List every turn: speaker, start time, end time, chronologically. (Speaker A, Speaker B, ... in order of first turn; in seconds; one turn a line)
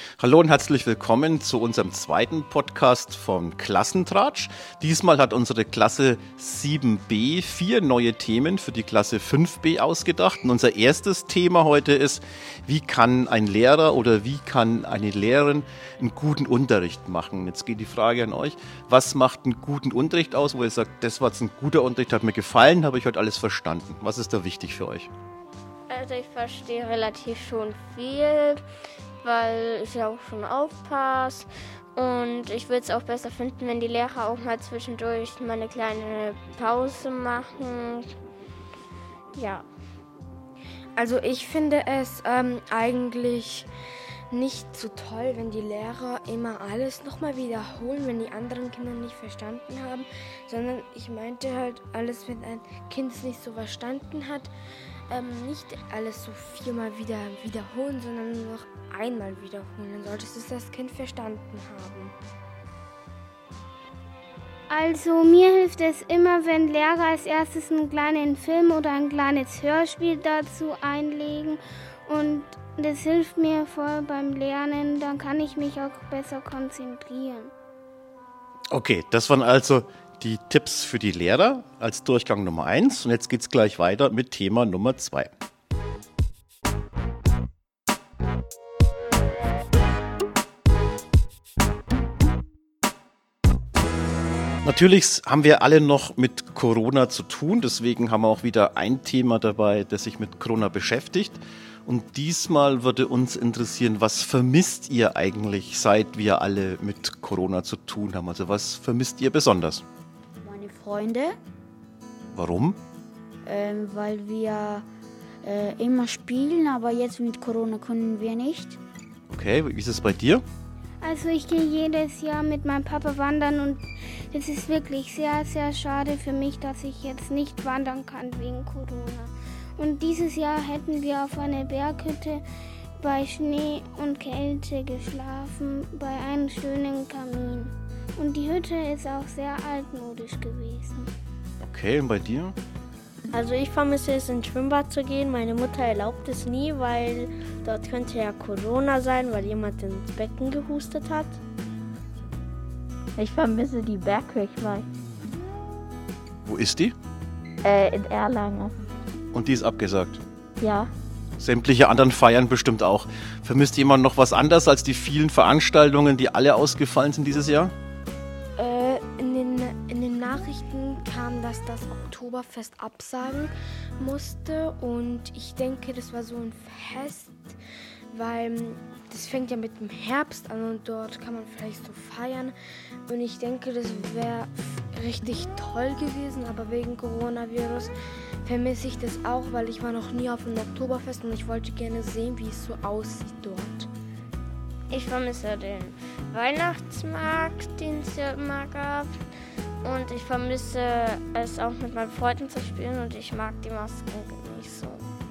Speaker A: 0.2-25.1
Speaker B: 25.9-28.6
Speaker B: 29.2-38.1
Speaker B: 39.3-39.6
Speaker C: 41.0-43.7
Speaker C: 44.3-54.5
Speaker C: 55.1-62.1
Speaker D: 64.7-77.5
Speaker A: 78.7-85.3
Speaker A: 94.6-109.8
Speaker E: 110.4-111.3
Speaker A: 112.3-112.8
Speaker E: 113.4-114.8
Speaker E: 115.4-118.8
Speaker A: 119.3-120.4
Speaker D: 121.0-132.4
Speaker D: 133.0-141.1
Speaker A: 141.6-142.6
Speaker B: 143.3-151.4
Speaker F: 153.2-154.8
Speaker A: 156.4-156.9
Speaker F: 157.6-158.7
Speaker A: 159.3-160.2
Speaker F: 160.6-160.9
Speaker A: 161.4-167.7
Speaker C: 168.6-177.6
Speaker C: 178.1-182.5
Speaker C: 183.1-187.9
Speaker C: 188.4-193.9
Speaker B: 194.9-199.1
Speaker B: 199.8-205.0